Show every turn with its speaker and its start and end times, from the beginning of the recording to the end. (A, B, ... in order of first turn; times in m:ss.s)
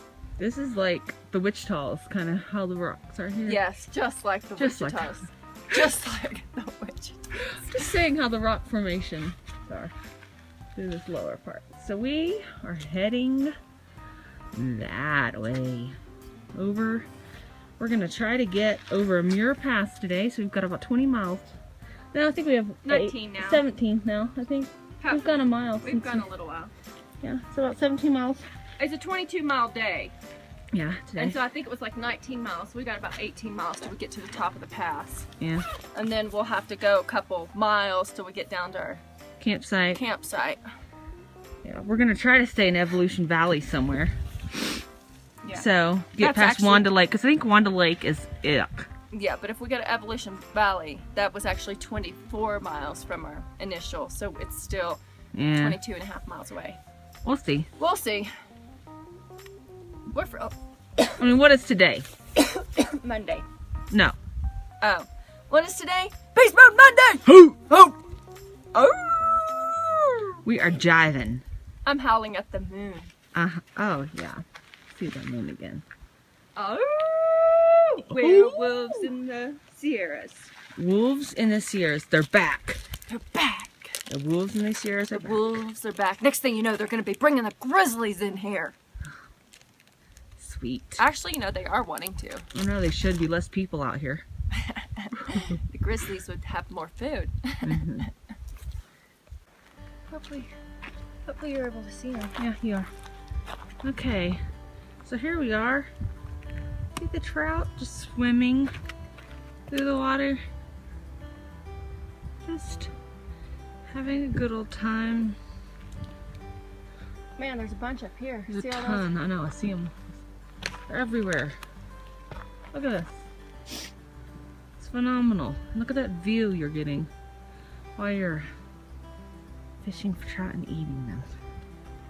0:00.4-0:03.6 A
0:03.4-0:07.9 B
0:04.6-0:05.2 A
0:07.4-0:09.9 A
0:10.8-0:13.5 A
0:14.5-0:16.0 A
0:16.5-0:17.1 A
0:17.8-0:21.6 A
0:22.1-0:26.2 A
0:22.8-0:23.6 B
0:25.0-0:26.7 B
0:27.2-0:28.4 A
0:28.8-0:30.1 B
0:30.7-0:31.4 A
0:31.2-0:35.3 B
0:35.4-0:35.6 A
0:35.9-0:39.0 B
0:39.4-0:40.0 A
0:39.8-0:40.6 B
0:41.6-0:44.1 A
0:45.4-0:46.9 B
0:45.5-0:48.9 A
0:49.1-0:55.0 B
0:55.3-0:55.8 A
0:55.5-0:56.8 B
0:57.2-0:57.7 A
0:57.8-0:58.3 B
1:00.1-1:00.5 B
1:01.2-1:02.0 A
1:02.7-1:03.4 B
1:03.9-1:04.2 A
1:04.8-1:07.9 B
1:08.7-1:09.2 B
1:09.8-1:10.4 B
1:10.4-1:11.4 A
1:11.8-1:13.1 B
1:13.3-1:14.4 A
1:14.9-1:15.8 A
1:16.5-1:20.5 B
1:18.1-1:19.5 A
1:20.8-1:22.8 A
1:23.1-1:24.0 B
1:24.1-1:25.6 A
1:25.1-1:28.7 B
1:30.4-1:31.0 A
1:31.0-1:32.4 B
1:32.5-1:34.2 A
1:34.7-1:38.0 B
1:37.6-1:38.1 A
1:40.1-1:40.5 B
1:41.2-1:42.4 B
1:42.4-1:42.9 A
1:43.8-1:44.4 A
1:45.0-1:45.9 A
1:46.9-1:48.7 A
1:49.7-1:50.4 A
1:52.4-1:52.9 A
1:53.9-1:55.4 A
1:57.4-1:59.1 B
1:58.5-2:00.0 A
2:00.9-2:01.6 A
2:02.7-2:03.3 A
2:04.8-2:07.1 A
2:08.0-2:08.5 A
2:09.8-2:11.3 A